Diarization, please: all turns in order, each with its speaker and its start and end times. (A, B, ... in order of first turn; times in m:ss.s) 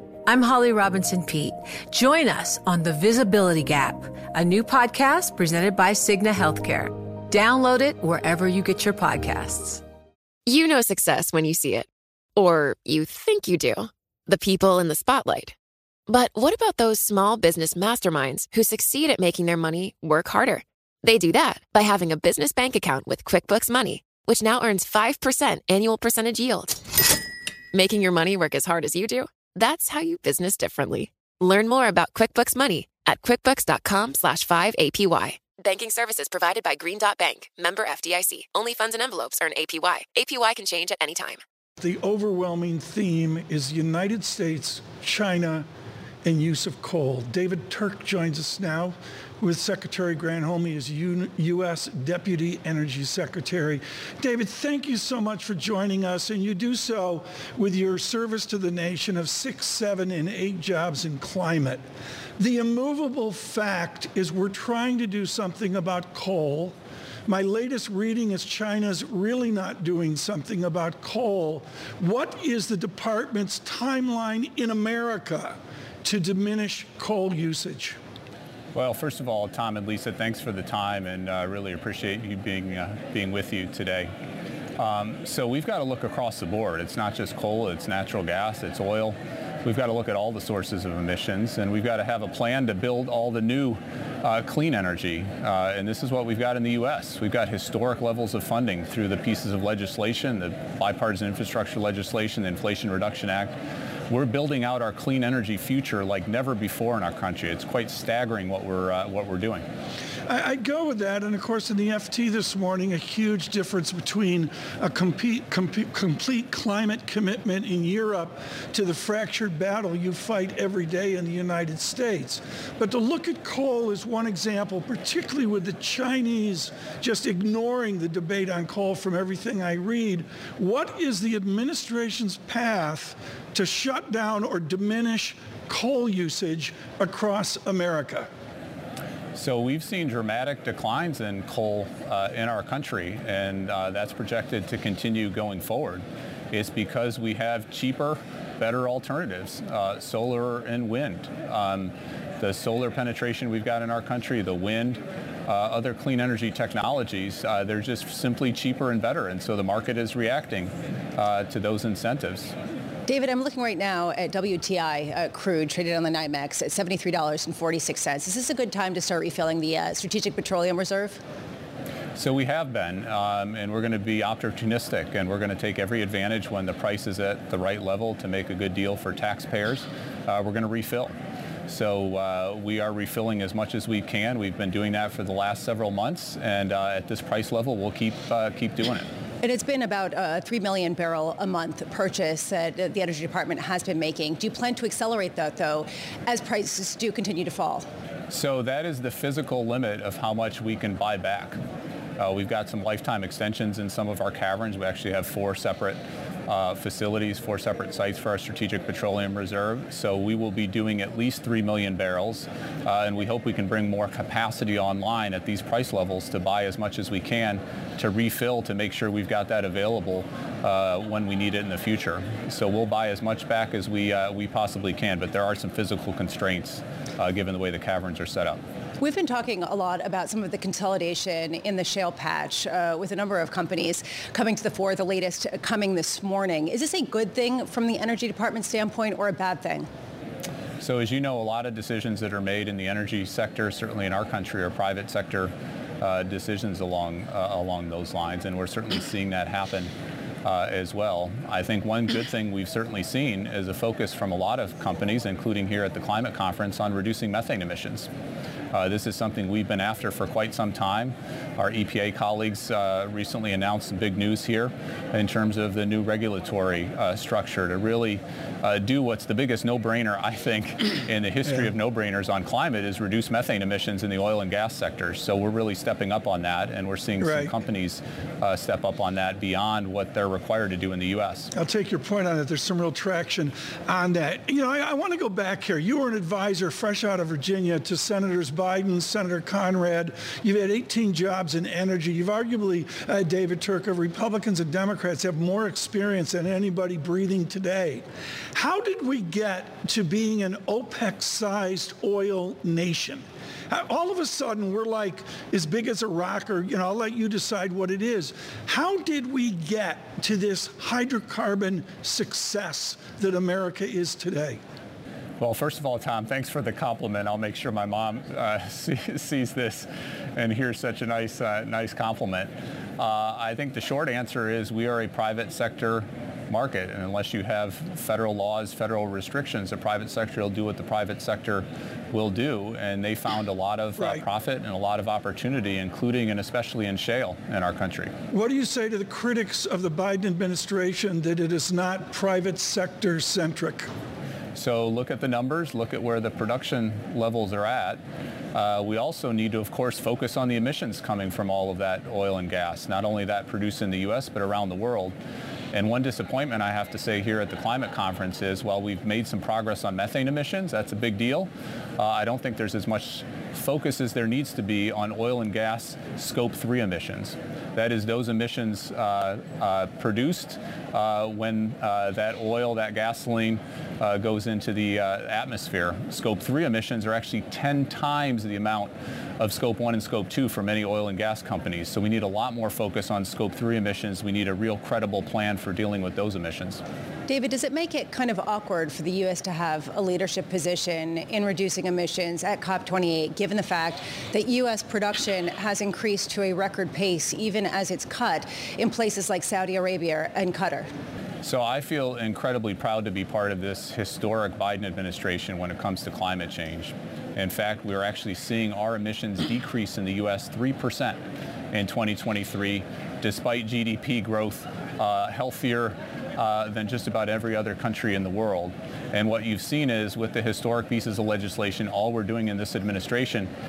0:00.2-0:09.8 A
0:10.4-0:15.5 B
0:16.1-0:26.8 B
0:27.7-0:41.4 B
0:41.8-0:45.6 C
0:46.2-1:01.8 C
1:02.4-1:18.0 C
1:18.7-1:24.1 D
1:24.8-1:43.5 D
1:44.1-1:49.6 D
1:50.3-2:18.3 C
2:19.3-2:42.5 D
2:43.0-2:51.2 E
2:52.2-3:01.1 D
3:01.7-3:09.1 D
3:09.4-3:17.8 E
3:18.3-3:21.6 D
3:22.2-3:48.6 D
3:49.0-3:59.9 E
4:00.8-4:09.9 D
4:10.4-4:18.1 D
4:18.7-4:41.5 D
4:31.4-4:31.7 C
4:37.2-4:37.5 C
4:41.5-5:14.6 C
5:15.4-5:38.1 D
5:34.0-5:34.2 C
5:38.3-5:43.9 C
5:44.6-5:48.0 D
5:48.5-5:55.1 D
5:55.7-6:26.8 D
6:27.3-6:40.9 E
6:41.4-6:51.2 D
6:51.7-7:03.5 D